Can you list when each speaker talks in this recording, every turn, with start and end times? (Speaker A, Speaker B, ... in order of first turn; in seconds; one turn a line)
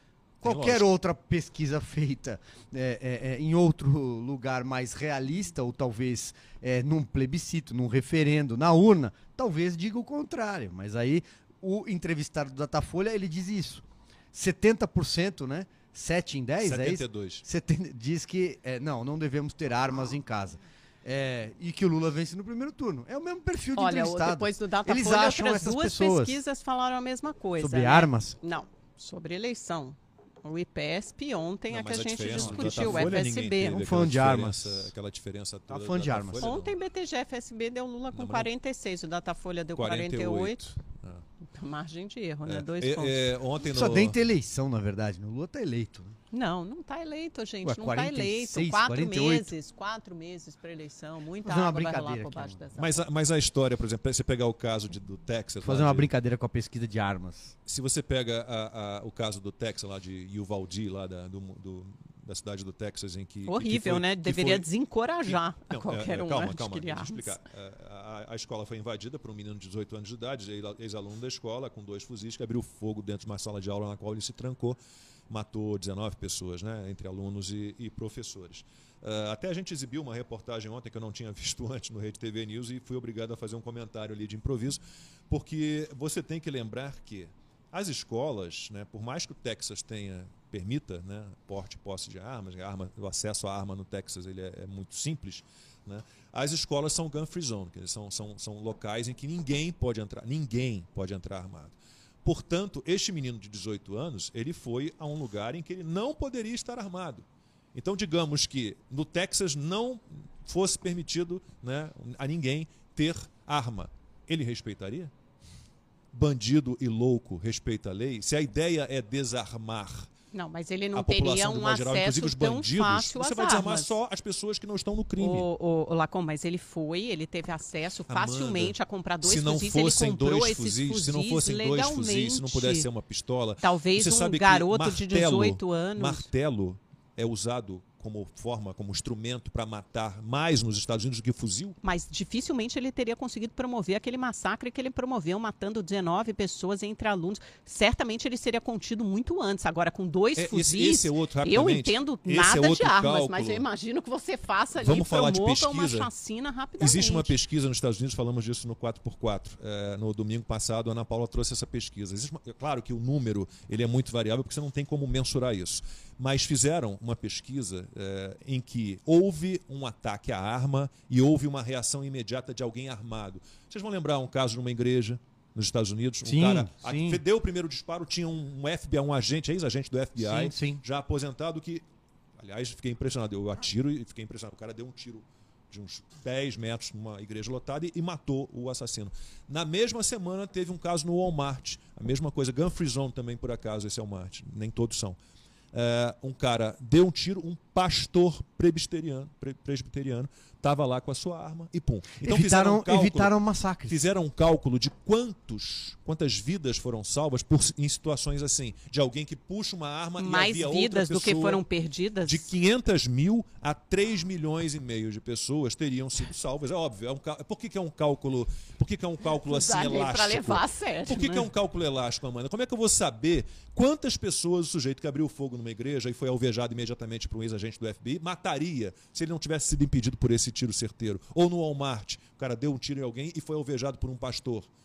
Speaker A: 0.4-26.4
Speaker B: 0.4-0.9
Speaker B: 16.6-17.4
Speaker C: 23.8-33.8
Speaker A: 27.6-28.4
Speaker B: 31.7-36.8
Speaker A: 32.4-34.9
Speaker A: 35.7-36.5
Speaker C: 36.4-40.7
Speaker B: 38.1-38.5
Speaker B: 39.8-41.2
Speaker C: 41.5-43.3
Speaker B: 42.5-44.2
Speaker A: 43.6-46.2
Speaker C: 46.3-53.1
Speaker A: 47.6-49.5
Speaker A: 51.5-52.6
Speaker B: 52.8-56.1
Speaker A: 55.6-57.5
Speaker B: 57.7-64.7
Speaker C: 63.5-67.4
Speaker B: 65.3-74.8
Speaker B: 75.3-115.1
Speaker B: 116.1-120.1
Speaker C: 120.3-124.0
Speaker B: 120.9-125.5
Speaker C: 125.2-132.9
Speaker B: 128.1-141.8
Speaker C: 133.6-136.3
Speaker C: 141.8-157.3
Speaker B: 150.4-153.6
Speaker B: 154.8-156.1
Speaker B: 156.8-181.8
Speaker A: 176.2-177.2
Speaker A: 180.2-180.8
Speaker B: 182.4-195.2
Speaker B: 195.7-203.3
Speaker A: 202.2-204.0
Speaker B: 203.9-211.6
Speaker C: 210.2-212.5
Speaker B: 212.3-234.7
Speaker C: 219.4-221.5